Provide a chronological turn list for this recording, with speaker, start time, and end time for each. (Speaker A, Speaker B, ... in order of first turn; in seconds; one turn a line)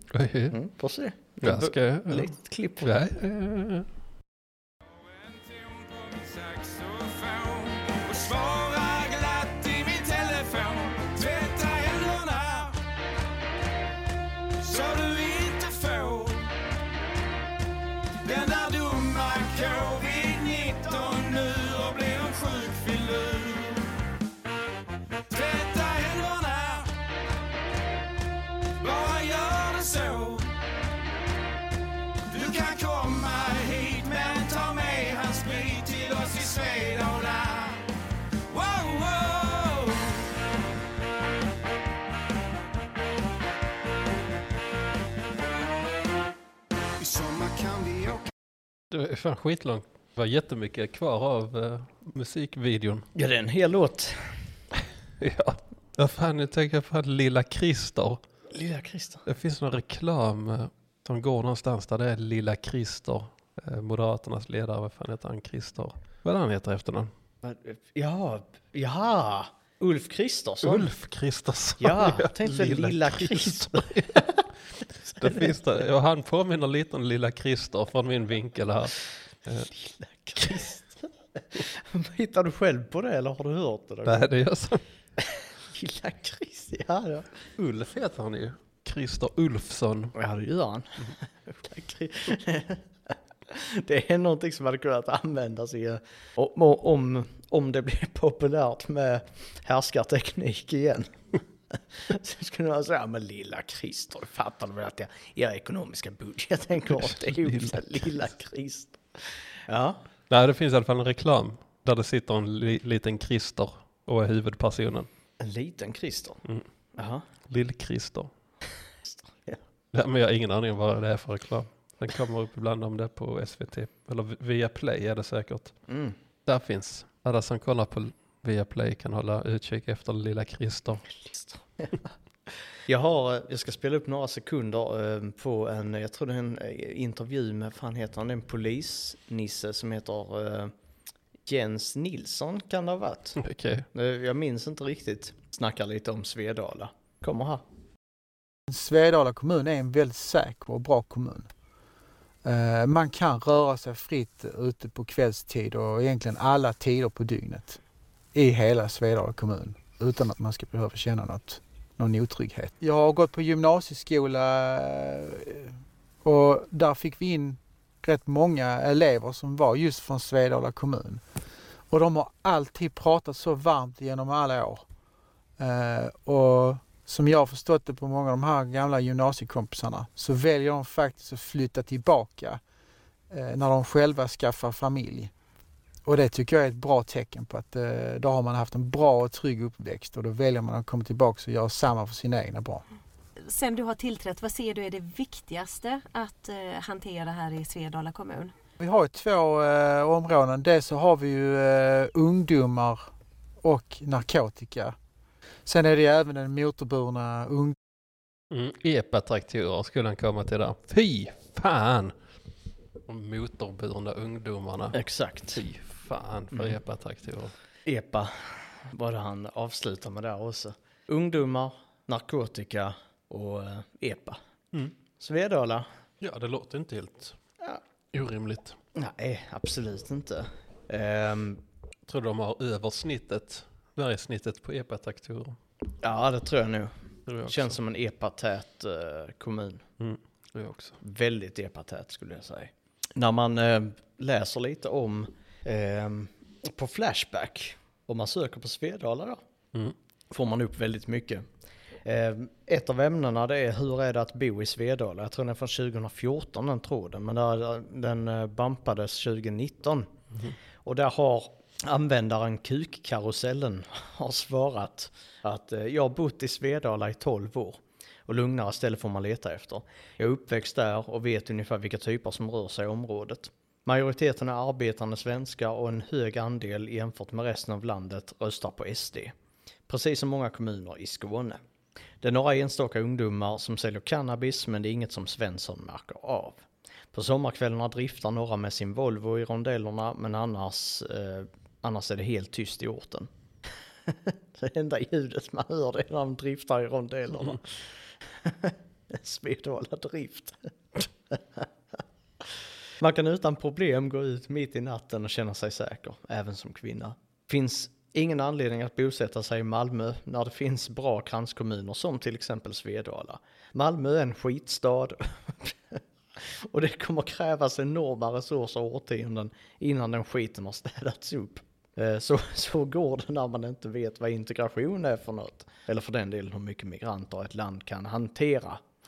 Speaker A: 0.1-0.5
Speaker B: 0.5-3.0
Speaker A: 1.4-3.9
Speaker C: 5.0-12.8
Speaker C: 14.5-16.5
Speaker C: 18.2-23.9
Speaker C: 25.3-26.9
Speaker C: 28.8-30.5
Speaker C: 32.3-37.9
Speaker C: 38.5-40.3
Speaker C: 47.0-48.2
Speaker A: 48.9-53.1
Speaker B: 53.1-54.4
Speaker A: 55.2-58.2
Speaker B: 58.5-59.2
Speaker A: 59.2-67.1
Speaker B: 67.4-70.9
Speaker A: 70.6-74.2
Speaker B: 71.8-74.5
Speaker A: 75.1-79.7
Speaker B: 75.2-75.5
Speaker B: 79.7-84.3
Speaker A: 84.0-84.8
Speaker B: 85.2-87.3
Speaker A: 87.6-90.1
Speaker B: 90.1-101.1
Speaker B: 101.7-110.0
Speaker A: 106.9-108.2
Speaker A: 110.3-115.1
Speaker B: 115.4-116.4
Speaker B: 117.0-117.2
Speaker A: 117.5-118.3
Speaker B: 119.0-119.6
Speaker A: 119.9-125.8
Speaker B: 125.9-126.2
Speaker A: 126.5-131.1
Speaker B: 131.1-132.0
Speaker B: 132.9-140.7
Speaker B: 141.4-143.4
Speaker A: 143.4-143.9
Speaker B: 143.9-147.6
Speaker D: 148.7-151.5
Speaker D: 152.4-157.8
Speaker D: 158.3-171.2
Speaker D: 171.9-174.8
Speaker D: 175.6-182.6
Speaker D: 183.3-185.3
Speaker D: 186.0-192.8
Speaker E: 193.4-198.5
Speaker D: 198.8-203.0
Speaker D: 203.6-204.9
Speaker D: 205.7-207.8
Speaker A: 208.5-212.1
Speaker A: 213.1-215.0
Speaker B: 214.9-215.6
Speaker A: 215.5-217.5
Speaker B: 217.8-224.4
Speaker B: 225.2-225.9
Speaker A: 226.2-227.3
Speaker A: 228.1-228.8
Speaker B: 228.9-231.6
Speaker A: 232.1-235.6
Speaker B: 236.0-236.9
Speaker A: 237.3-237.8
Speaker B: 237.4-239.8
Speaker A: 240.0-241.0
Speaker B: 241.0-249.4
Speaker B: 250.3-251.4
Speaker B: 252.0-260.1
Speaker B: 260.8-279.3
Speaker B: 279.9-281.6
Speaker B: 282.2-293.3
Speaker B: 294.1-297.8
Speaker B: 298.4-301.7
Speaker B: 303.0-328.8